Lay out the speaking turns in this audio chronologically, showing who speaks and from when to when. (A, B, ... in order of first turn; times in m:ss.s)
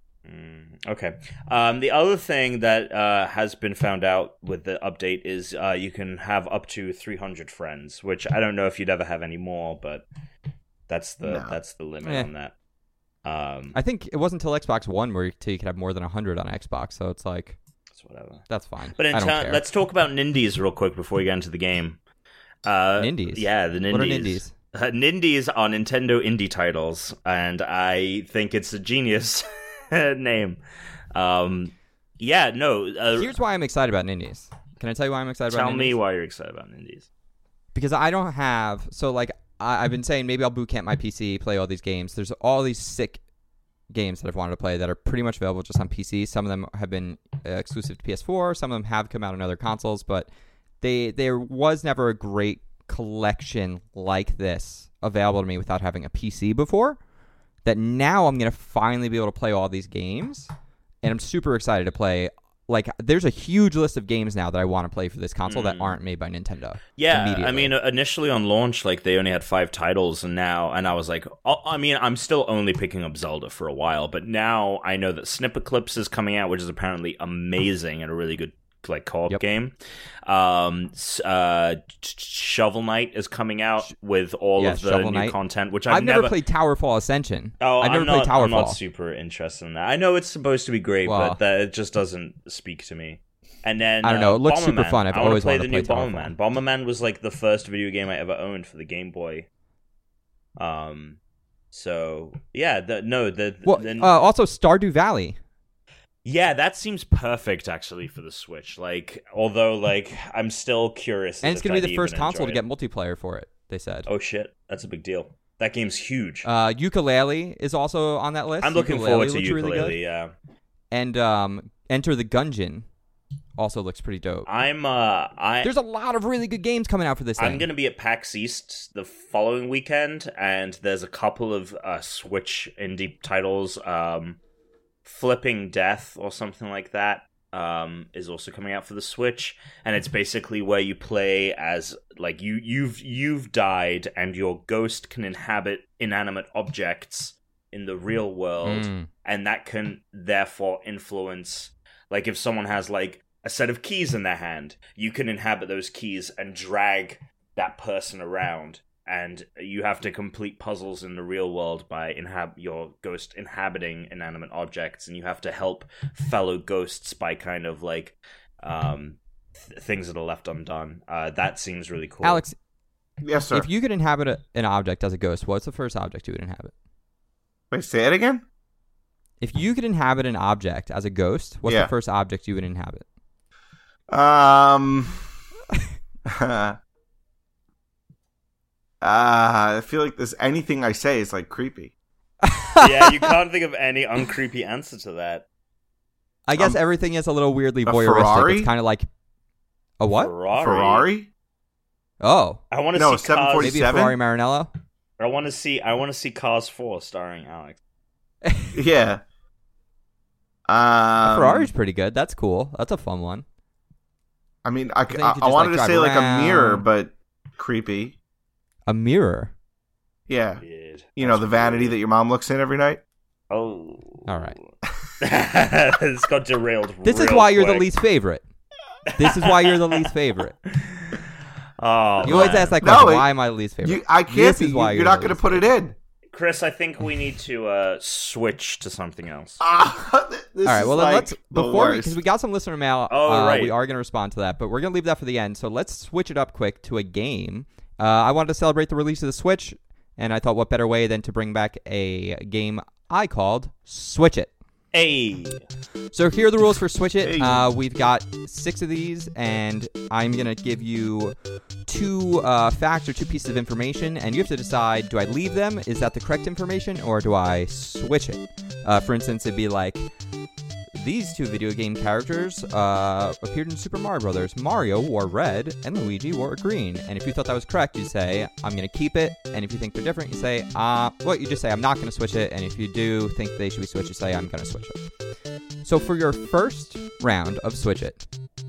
0:00.2-0:10.0 A
0:10.9-0:12.5 A
0:11.2-0:11.6 B
0:12.0-0:12.3 C
0:13.2-0:13.8 A
0:13.7-0:17.6 C
0:18.0-0:18.4 A
0:18.5-0:19.6 C
0:19.0-0:22.0 A
0:22.6-0:30.6 A
0:23.0-0:24.5 C
0:31.1-0:33.3 A
0:33.1-0:36.0 C
0:35.5-0:37.1 A
0:37.7-0:43.2 C
0:43.9-0:50.3 C
0:50.8-0:57.0 C
0:57.6-1:00.5 C
1:01.0-1:07.7 C
1:05.5-1:06.0 A
1:07.0-1:19.8 A
1:20.3-1:26.4 A
1:24.6-1:25.4 C
1:25.9-1:28.8 C
1:27.6-1:39.5 A
1:31.0-1:31.4 C
1:34.0-1:36.3 C
1:40.6-1:41.2 A
1:41.7-1:44.2 A
1:43.7-1:45.4 C
1:46.2-1:52.6 A
1:51.4-1:54.1 C
1:54.1-1:56.5 A
1:56.4-2:00.0 C
1:58.6-2:00.3 A
2:00.9-2:02.9 C
2:03.6-2:04.5 C
2:04.5-2:05.7 A
2:05.6-2:07.7 C
2:07.4-2:14.4 A
2:15.0-2:52.4 A
2:28.6-2:29.1 C
2:52.2-2:52.6 C
2:53.2-2:53.7 B
2:53.5-2:56.7 C
2:57.7-2:58.4 B
2:59.4-3:03.0 C
3:01.7-3:01.9 B
3:04.1-3:05.1 B
3:06.3-3:06.8 B
3:09.0-3:11.9 B
3:12.4-3:13.4 C
3:12.8-3:15.4 A
3:16.5-3:19.1 C
3:17.8-3:18.7 B
3:20.0-3:20.3 C
3:20.2-3:21.1 A
3:20.6-3:21.3 B
3:22.2-3:22.6 C
3:22.7-3:23.8 A
3:23.0-3:24.2 B
3:23.6-3:24.7 C
3:25.2-3:27.8 A
3:28.4-3:28.7 C
3:28.7-3:29.2 B
3:30.7-3:31.7 B
3:31.2-3:33.4 C
3:34.6-3:38.2 B
3:35.1-3:36.8 C
3:38.9-3:39.5 C
3:40.3-3:40.6 B
3:40.6-3:42.0 A
3:41.2-3:43.0 B
3:43.5-3:44.5 A
3:44.3-3:44.6 C
3:45.2-3:47.9 A
3:47.0-3:48.4 C
3:49.1-3:50.1 A
3:49.2-3:50.6 C
3:50.7-3:52.8 A
3:52.2-3:53.3 B
3:52.2-3:55.7 C
3:53.8-3:56.0 B
3:56.3-3:59.6 A
3:59.6-4:02.2 B
4:00.6-4:14.5 C
4:03.1-4:03.8 A
4:14.9-4:15.6 A
4:16.1-4:21.4 C
4:17.2-4:17.7 B
4:21.9-4:30.0 C
4:31.0-4:45.0 C
4:45.8-4:48.3 C